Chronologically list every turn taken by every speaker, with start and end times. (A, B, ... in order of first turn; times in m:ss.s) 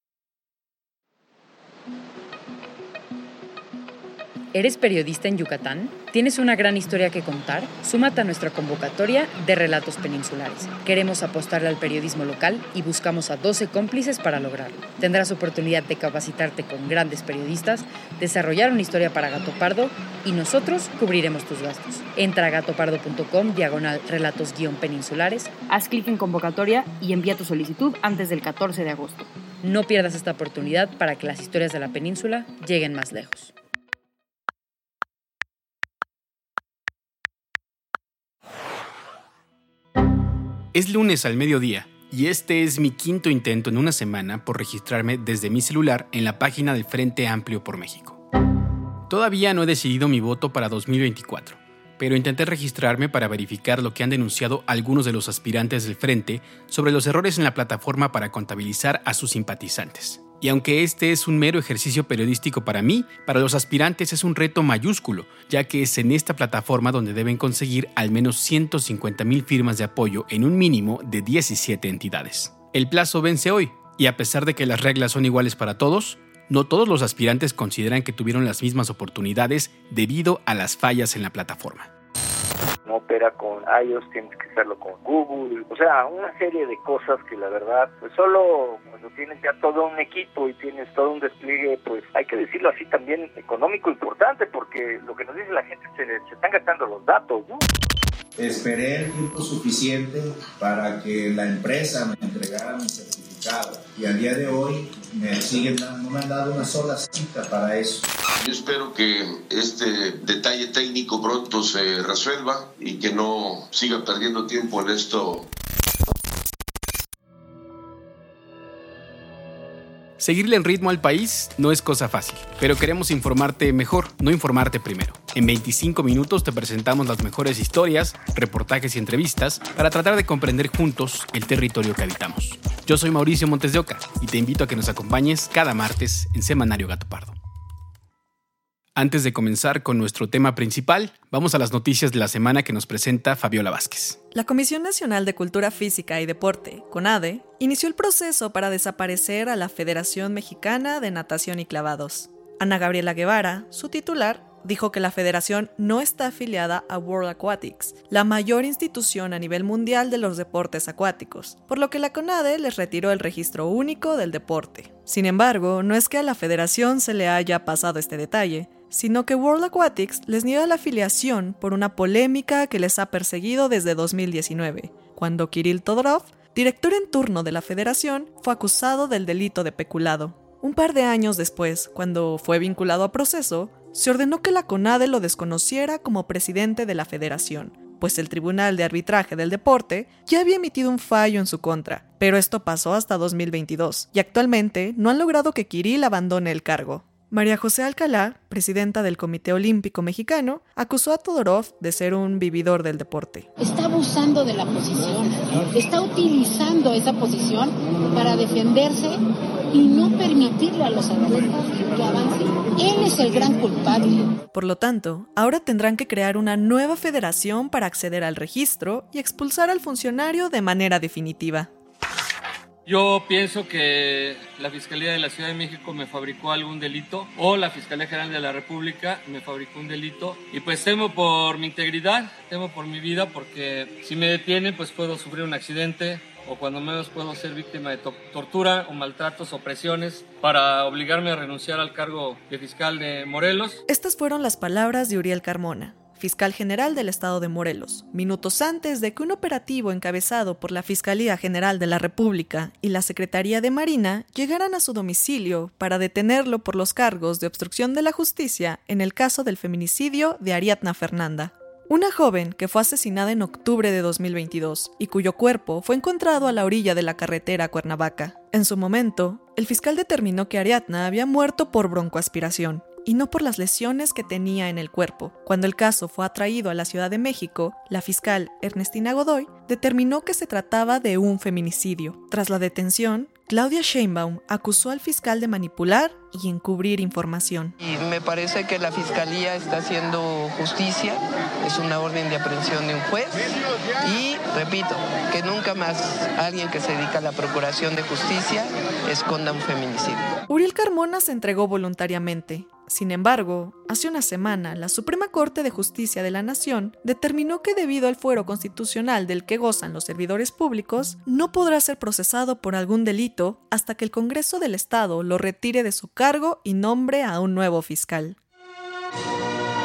0:04.5-0:25.6 A
0:29.6-0:33.5 A
0:40.7-0:48.2 B
0:49.1-1:21.9 B
1:22.9-1:37.6 C
1:38.4-1:48.1 D
1:48.4-1:55.5 E
2:00.2-2:17.4 B
2:19.0-2:24.2 B
2:24.3-3:23.5 F
3:23.6-3:29.2 G
3:29.7-3:34.3 G
3:34.5-3:41.7 F
3:42.9-4:03.8 H
4:03.9-4:47.8 F
4:47.8-5:00.4 I
5:00.5-5:18.4 F